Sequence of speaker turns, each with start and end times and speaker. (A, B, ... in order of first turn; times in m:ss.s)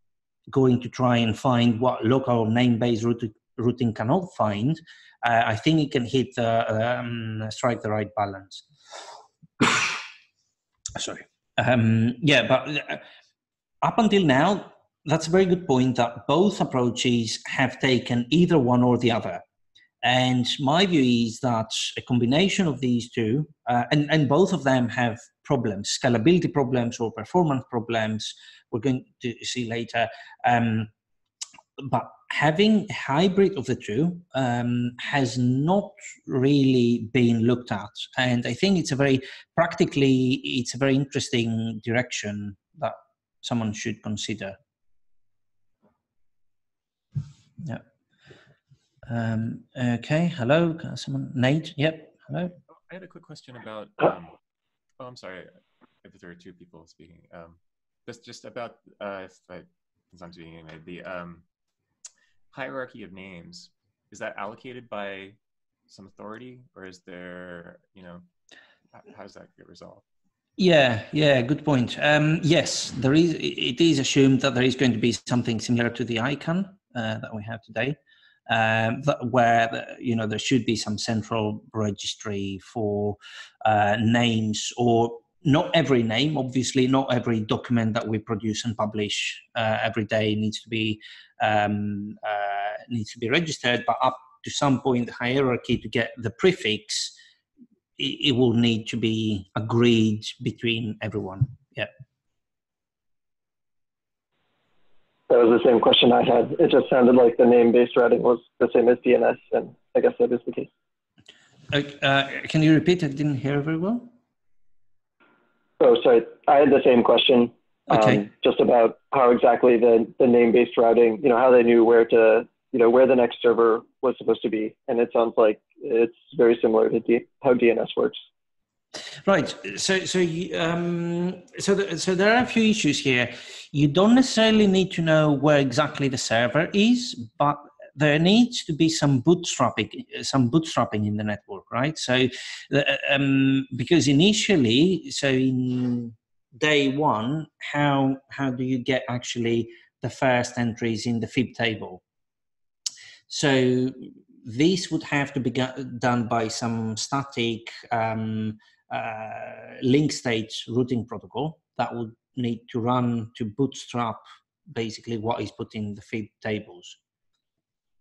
0:00.5-0:08.6 A
0:10.9-0:13.0 A
0:13.8-0:19.4 A
0:20.0-0:30.9 A
0:31.8-0:44.6 A
0:49.1-0:52.5 A
0:52.8-0:54.3 B
0:55.0-0:55.5 B
0:56.0-1:01.4 B
1:02.5-1:05.4 B
1:05.9-1:08.2 B
1:08.9-1:10.0 B
1:10.6-1:18.0 A
1:18.5-1:37.1 A
1:38.0-1:41.9 A
1:45.3-1:50.7 C
1:51.7-1:54.1 A
1:55.8-2:08.2 C
1:57.9-1:58.2 A
2:09.2-2:32.0 A
2:33.3-2:47.0 A